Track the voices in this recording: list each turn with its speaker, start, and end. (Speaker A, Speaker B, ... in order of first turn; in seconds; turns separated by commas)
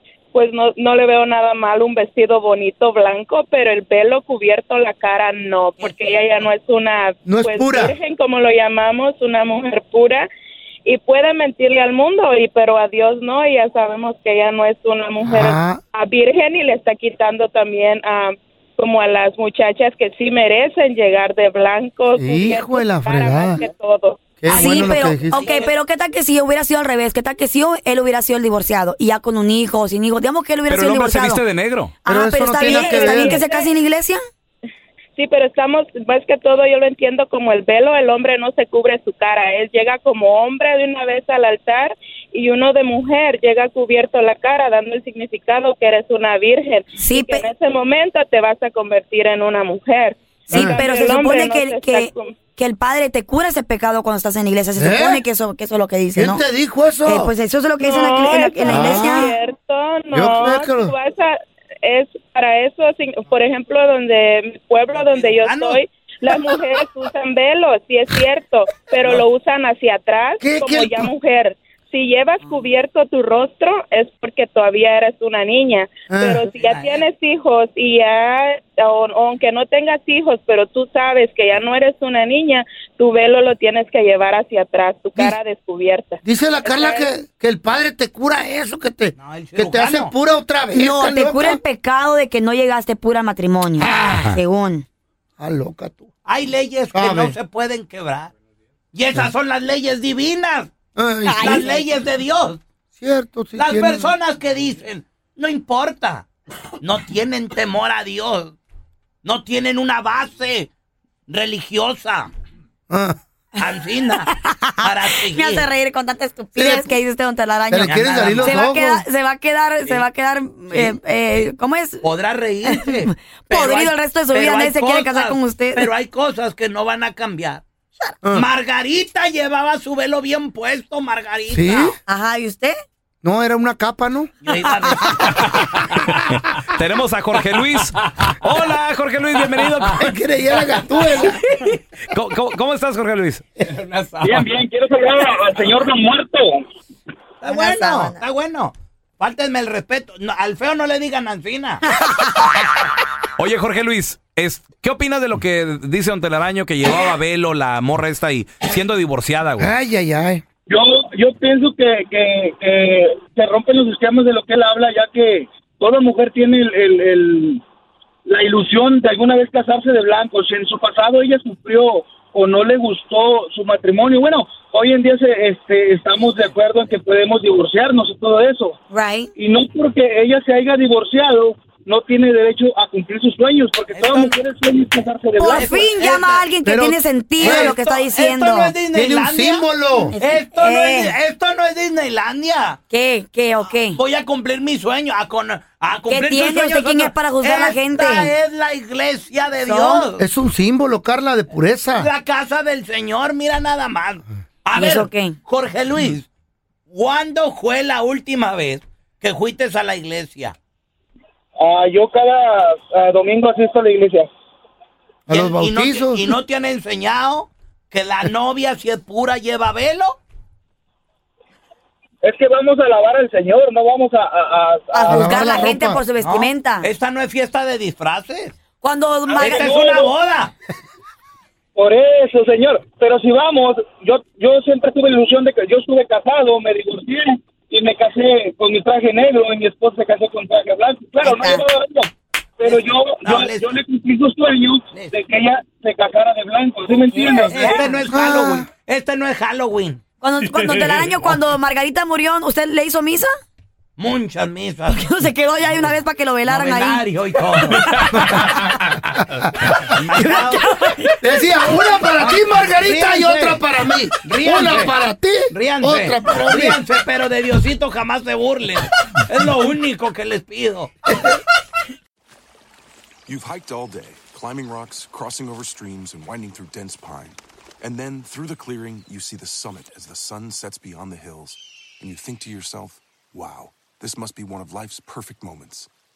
Speaker A: 0.3-10.3, Speaker B: 7.2-7.9, Speaker A: 10.8-24.9, Speaker B: 15.2-15.8, Speaker B: 22.1-23.6, Speaker B: 24.4-25.4, Speaker C: 24.4-31.4, Speaker D: 24.6-25.7, Speaker E: 30.7-31.9, Speaker C: 32.0-34.2, Speaker B: 32.0-33.4, Speaker A: 32.8-33.8, Speaker A: 35.1-52.4, Speaker C: 47.0-47.5, Speaker B: 50.5-50.8, Speaker C: 50.6-56.4, Speaker B: 54.8-55.2, Speaker B: 56.1-57.3, Speaker C: 57.0-59.3, Speaker A: 57.8-87.1, Speaker B: 58.7-59.3, Speaker B: 60.1-60.9, Speaker D: 64.9-65.8, Speaker B: 70.4-71.1, Speaker B: 76.1-76.4, Speaker C: 76.5-77.0, Speaker B: 86.2-91.6, Speaker D: 89.2-90.1, Speaker C: 90.7-94.8, Speaker B: 93.8-94.3, Speaker E: 94.1-94.3, Speaker B: 95.4-96.1, Speaker D: 96.2-98.3, Speaker B: 96.9-97.3, Speaker D: 98.9-100.7, Speaker B: 101.0-101.7, Speaker C: 101.2-101.7, Speaker D: 101.3-102.6, Speaker B: 102.9-104.1, Speaker D: 103.5-106.2, Speaker D: 106.8-108.6, Speaker D: 109.2-110.7, Speaker D: 111.3-112.3, Speaker B: 112.9-113.2, Speaker D: 113.6-114.3, Speaker C: 114.3-122.1, Speaker D: 114.8-115.7, Speaker B: 116.5-116.9, Speaker B: 117.7-119.0, Speaker D: 117.8-118.6, Speaker D: 120.7-120.9, Speaker D: 122.0-127.6, Speaker C: 122.6-125.9, Speaker D: 128.3-131.9, Speaker B: 131.5-131.9, Speaker C: 132.1-132.8, Speaker B: 133.2-134.3, Speaker D: 134.4-136.1, Speaker C: 134.7-135.5, Speaker E: 136.2-140.0, Speaker B: 140.0-141.4, Speaker E: 142.1-143.6, Speaker D: 143.6-144.4, Speaker F: 144.2-146.5, Speaker D: 147.4-151.9, Speaker C: 147.5-148.2, Speaker C: 152.0-152.4, Speaker E: 153.4-159.7, Speaker B: 159.6-160.4, Speaker F: 160.7-167.6, Speaker F: 168.2-178.7, Speaker C: 178.9-179.3, Speaker F: 179.4-185.9, Speaker D: 183.9-184.3, Speaker C: 185.3-188.7, Speaker D: 185.5-186.4, Speaker B: 186.6-187.8, Speaker D: 187.4-189.7, Speaker B: 188.9-190.1, Speaker C: 189.9-191.1, Speaker D: 190.2-192.8, Speaker C: 192.9-194.0, Speaker D: 193.6-200.2, Speaker C: 196.1-198.3, Speaker C: 199.6-200.1, Speaker B: 200.2-202.1, Speaker D: 201.9-206.3, Speaker C: 204.7-205.4, Speaker D: 206.9-210.6, Speaker F: 211.6-214.3, Speaker B: 215.3-216.3, Speaker D: 215.3-220.2, Speaker F: 222.2-225.5, Speaker C: 224.9-226.9, Speaker B: 225.1-226.0, Speaker D: 226.2-228.6, Speaker C: 228.8-229.7, Speaker D: 229.3-230.5, Speaker F: 229.4-230.1, Speaker F: 231.8-248.1, Speaker C: 241.2-241.7, Speaker D: 242.6-243.8, Speaker C: 246.9-247.9, Speaker D: 247.3-250.0, Speaker B: 248.1-248.7, Speaker C: 250.2-253.3, Speaker E: 250.6-251.0, Speaker D: 254.0-255.0, Speaker C: 254.9-257.1, Speaker D: 256.4-258.7, Speaker C: 257.7-258.5, Speaker D: 259.9-260.6, Speaker C: 260.1-261.8, Speaker B: 261.2-266.8, Speaker D: 262.2-263.6, Speaker D: 264.2-264.9, Speaker D: 265.5-271.0, Speaker B: 271.1-271.4, Speaker G: 273.3-285.9